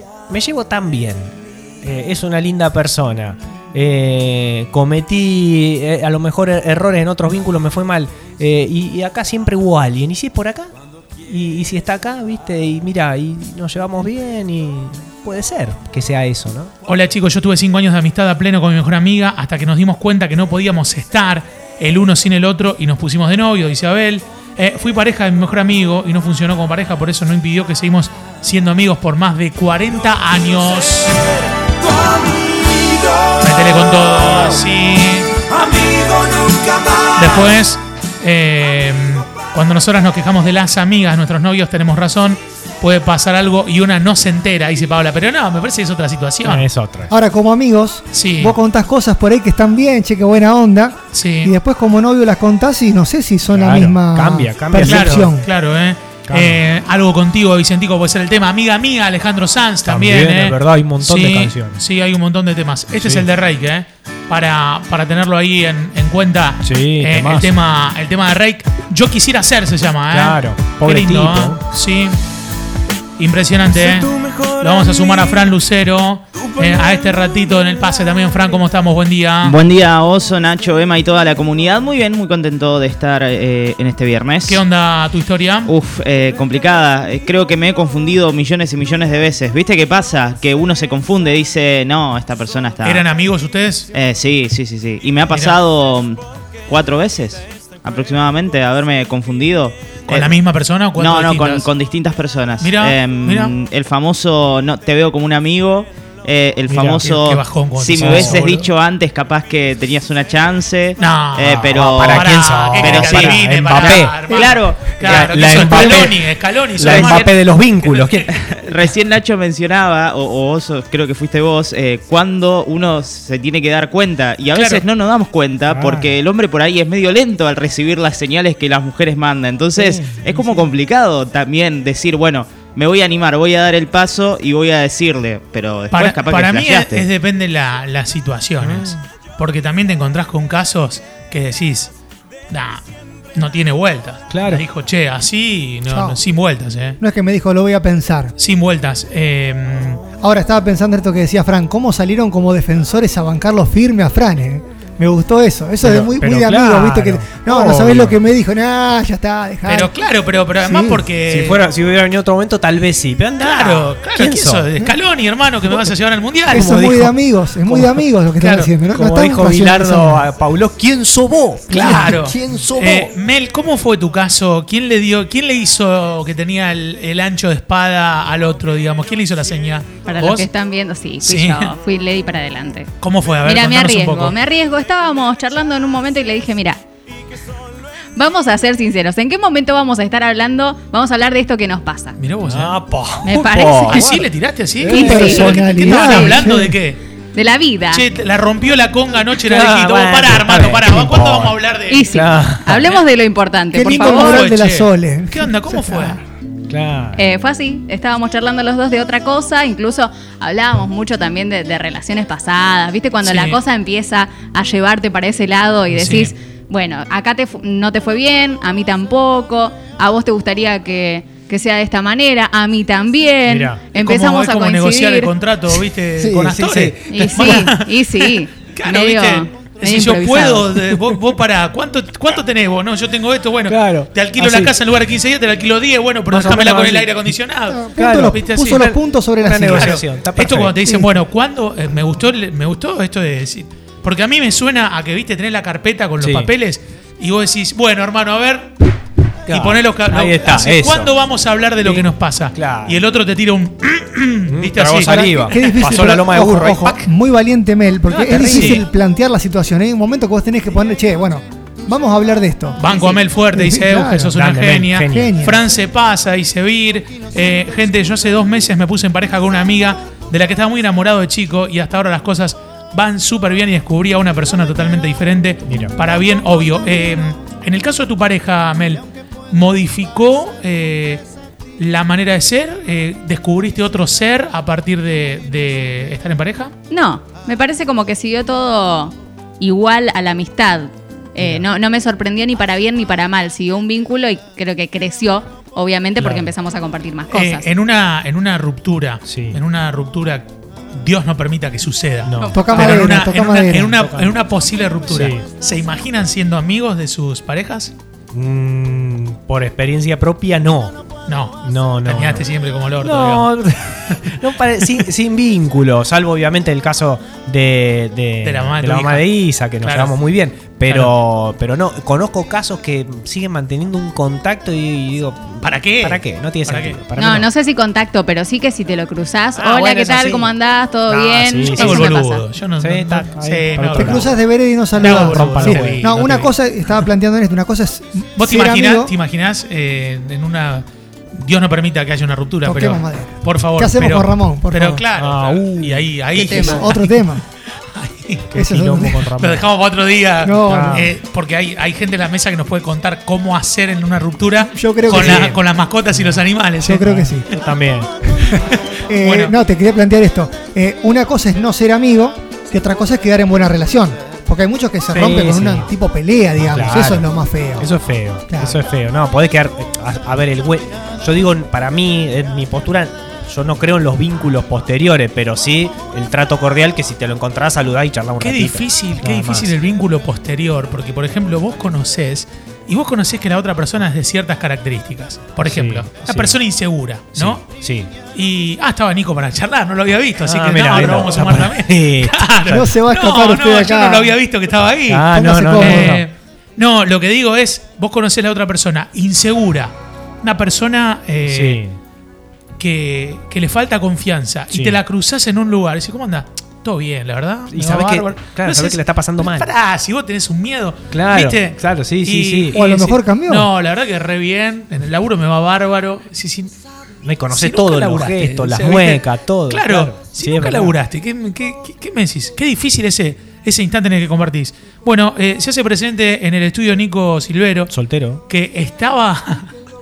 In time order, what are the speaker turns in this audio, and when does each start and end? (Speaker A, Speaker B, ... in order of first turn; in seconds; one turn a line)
Speaker A: 0.3-10.7
Speaker A: 11.2-16.7
Speaker B: 16.9-31.2
Speaker B: 33.4-35.5
Speaker B: 37.1-46.7
Speaker A: 46.4-47.1
Speaker C: 47.1-55.5
Speaker B: 48.1-48.5
Speaker B: 51.1-51.5
Speaker A: 53.5-55.3
Speaker B: 54.8-72.2
Speaker A: 56.3-56.6
Speaker A: 59.9-61.8
Speaker A: 63.0-63.3
Speaker A: 66.6-67.5
Speaker A: 70.1-71.6
Speaker B: 73.2-79.6
Speaker D: 79.4-84.6
Speaker B: 84.5-85.7
Speaker D: 85.7-93.1
Speaker B: 92.8-93.9
Speaker D: 93.9-100.3
Speaker B: 95.3-95.6
Speaker B: 100.1-101.7
Speaker D: 101.0-116.1
Speaker B: 102.6-103.5
Speaker A: 106.7-107.1
Speaker B: 107.0-108.7
Speaker A: 107.9-108.4
Speaker B: 111.0-118.3
Speaker A: 111.6-114.3
Speaker A: 115.0-118.3
Speaker D: 118.3-137.0
Speaker B: 124.5-124.8
Speaker A: 125.7-126.1
Speaker A: 129.7-130.7
Speaker B: 135.9-141.9
Speaker A: 138.6-139.0
Speaker B: 142.5-142.8
Speaker B: 143.3-147.0
Speaker A: 144.3-144.6
Speaker C: 145.9-146.2
Speaker C: 147.0-148.3
Speaker B: 148.4-150.0
Speaker C: 150.2-159.9
Speaker A: 155.8-158.2
Speaker B: 159.7-161.6
Speaker C: 160.6-161.0
Speaker A: 161.3-164.8
Speaker B: 163.4-167.0
Speaker A: 166.5-168.0
Speaker C: 166.5-170.2
Speaker B: 168.4-168.7
Speaker A: 168.9-173.1
Speaker B: 171.7-180.5
Speaker C: 171.8-172.2
Speaker E: 180.1-182.9
Speaker B: 181.2-181.7
Speaker B: 183.0-184.3
Speaker E: 183.4-186.8
Speaker E: 188.2-192.2
Speaker B: 192.2-192.7
Speaker A: 192.4-195.4
Speaker E: 193.2-194.1
Speaker B: 193.9-197.0
Speaker E: 194.9-196.4
Speaker C: 194.9-196.8
Speaker E: 197.3-198.0
Speaker B: 197.9-203.0
Speaker A: 199.4-202.8
Speaker E: 201.9-204.4
Speaker C: 203.7-206.2
Speaker B: 203.9-206.2
Speaker A: 206.7-207.2
Speaker E: 207.2-225.3
Speaker B: 213.2-213.6
Speaker B: 215.9-216.3
Speaker A: 223.5-223.8
Speaker B: 223.9-238.9
Speaker A: 226.2-227.7
Speaker E: 227.1-230.9
Speaker A: 233.7-234.7
Speaker A: 236.3-237.3
Speaker C: 237.7-240.0
Speaker A: 237.9-240.8
Speaker B: 239.6-248.8
Speaker A: 246.2-246.5
Speaker A: 249.5-251.1
Speaker B: 249.5-255.9
Speaker A: 251.8-253.0
Speaker A: 254.5-257.1
Speaker C: 255.1-262.8
Speaker A: 258.1-258.8
Speaker B: 258.3-258.9
Speaker B: 262.8-281.2
Speaker C: 263.5-264.4
Speaker A: 264.3-265.4
Speaker C: 265.1-265.6
Speaker A: 275.6-275.9
Speaker B: 281.8-286.7
Speaker E: 286.9-297.6
Speaker A: 291.4-291.7
Speaker A: 296.2-296.5
Speaker B: 297.3-307.9
Speaker A: 299.2-299.6
Speaker A: 302.2-303.2
Speaker C: 302.5-304.0
Speaker A: 303.9-304.4
Speaker A: 305.1-305.4
Speaker A: 308.3-311.0
Speaker B: 311.3-313.5
Speaker A: 311.6-312.4
Speaker A: 313.0-327.5
Speaker B: 314.1-314.3
Speaker B: 318.4-320.2
Speaker B: 320.9-321.1
Speaker B: 325.6-327.0
Speaker E: 327.2-332.4
Speaker A: 329.5-330.5
Speaker A: 331.1-332.1
Speaker B: 331.7-334.3
Speaker A: 332.8-334.3
Speaker C: 333.9-339.1
Speaker A: 334.9-336.1
Speaker B: 334.9-336.5
Speaker B: 338.4-347.3
Speaker C: 342.6-345.0
Speaker A: 345.1-346.7
Speaker C: 346.4-347.4
Speaker E: 346.5-346.9
Speaker B: 347.9-348.5
Speaker A: 348.5-349.7
Speaker C: 348.5-349.2
Speaker B: 349.4-357.3
Speaker C: 350.4-351.1
Speaker A: 350.6-351.1
Speaker C: 354.7-355.5
Speaker A: 355.1-355.6
Speaker C: 356.8-357.4
Speaker A: 357.0-358.1
Speaker C: 358.5-367.9
Speaker B: 359.1-359.6
Speaker A: 365.1-365.9
Speaker A: 366.6-367.3
Speaker A: 367.8-379.7
Speaker C: 368.5-368.8
Speaker B: 378.4-387.6
Speaker A: 385.6-386.6
Speaker A: 387.3-388.1
Speaker B: 388.3-401.8
Speaker A: 390.4-392.8
Speaker C: 392.7-394.3
Speaker A: 395.1-396.3
Speaker C: 395.3-396.2
Speaker A: 401.5-402.0
Speaker B: 402.8-416.7
Speaker A: 404.7-405.0
Speaker A: 407.7-409.7
Speaker A: 411.1-412.8
Speaker C: 412.7-413.7
Speaker A: 417.2-420.9
Speaker B: 417.5-427.9
Speaker A: 427.9-428.4
Speaker B: 428.5-429.7